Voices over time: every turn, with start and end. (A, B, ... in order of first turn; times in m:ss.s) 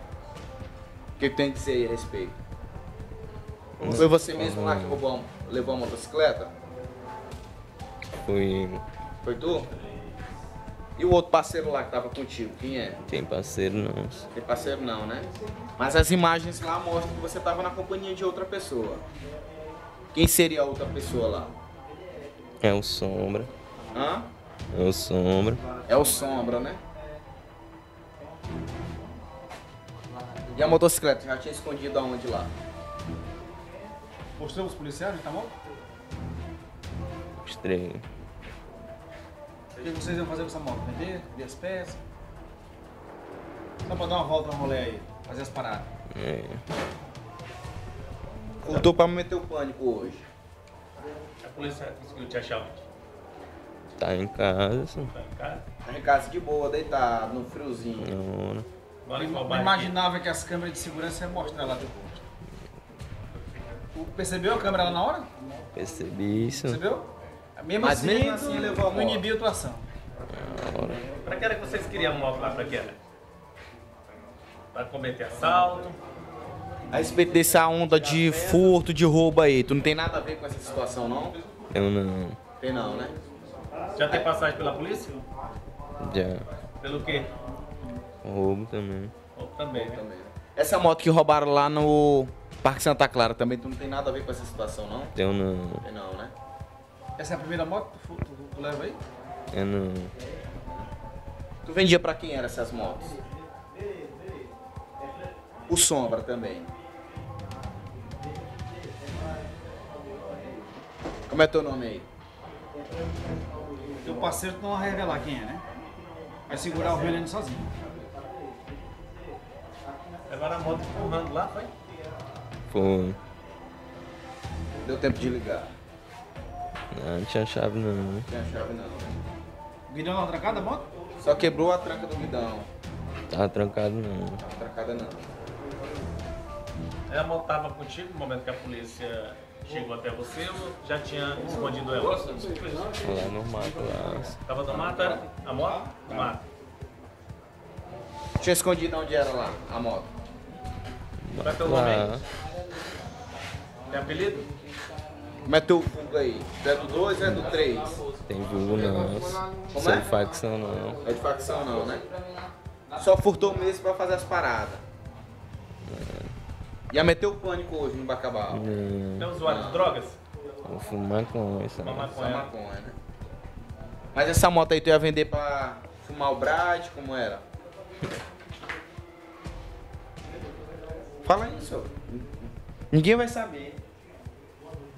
0:01.2-0:02.4 A
0:03.8-0:05.0 B
0:03.8-0:06.5 A
0:08.2-0:08.8 B
0:09.2-0:09.7 A
0:11.0-0:13.0 A
0:13.1-0:14.3 B
0:14.3-0:19.0 A
0:20.1-0:21.5 A
0:22.6-0:23.5 B
0:23.9-0:24.3 A
0:24.7-0:25.6 B
0:25.9-0:26.8 A
0:30.5-0:32.5 A
0:34.4-0:35.5 C
0:37.4-0:38.0 B
0:39.8-0:42.0 C
0:43.8-0:45.9 C
0:46.1-0:46.6 B
0:48.6-0:50.2 A
0:51.4-0:52.9 D
0:54.0-0:55.1 B
0:55.1-0:55.6 D
0:55.8-0:58.1 A
0:58.0-0:58.7 B
0:59.1-1:00.0 D
0:59.1-1:02.2 C
1:03.9-1:05.3 C
1:05.8-1:06.8 B
1:06.6-1:09.9 C
1:07.8-1:09.3 A
1:10.3-1:11.1 B
1:11.2-1:13.0 D
1:14.7-1:16.0 D
1:16.9-1:21.4 A
1:21.7-1:22.4 B
1:22.6-1:23.2 A
1:24.0-1:25.1 D
1:26.0-1:26.4 B
1:26.8-1:27.3 D
1:28.2-1:29.1 B
1:29.4-1:30.0 D
1:29.7-1:35.2 A
1:35.2-1:35.8 B
1:35.8-1:36.3 A
1:37.2-1:39.0 C
1:39.5-1:40.1 B
1:41.6-1:43.1 A
1:45.7-1:46.7 A
1:51.3-1:52.1 A
1:54.0-1:55.6 C
1:56.5-1:57.7 C
2:00.3-2:01.7 D
2:02.7-2:03.2 B
2:04.8-2:05.7 A
2:06.9-2:08.3 B
2:08.3-2:09.2 A
2:09.9-2:10.9 C
2:11.2-2:12.7 A
2:13.3-2:14.4 B
2:14.4-2:15.2 A
2:17.1-2:22.9 D
2:22.9-2:24.4 B
2:24.5-2:26.4 D
2:28.4-2:30.1 A
2:31.2-2:32.2 B
2:31.4-2:32.2 D
2:33.9-2:34.5 D
2:35.5-2:38.0 A
2:38.2-2:41.0 B
2:39.7-2:40.1 A
2:41.0-2:42.1 A
2:43.0-2:44.8 A
2:45.9-2:46.3 B
2:46.9-2:48.7 A
2:48.5-2:49.3 B
2:49.2-2:50.2 D
2:49.4-2:49.8 A
2:50.6-2:52.2 B
2:51.8-2:52.5 D
2:52.2-2:53.0 A
2:54.1-2:57.4 A
3:01.2-3:03.8 A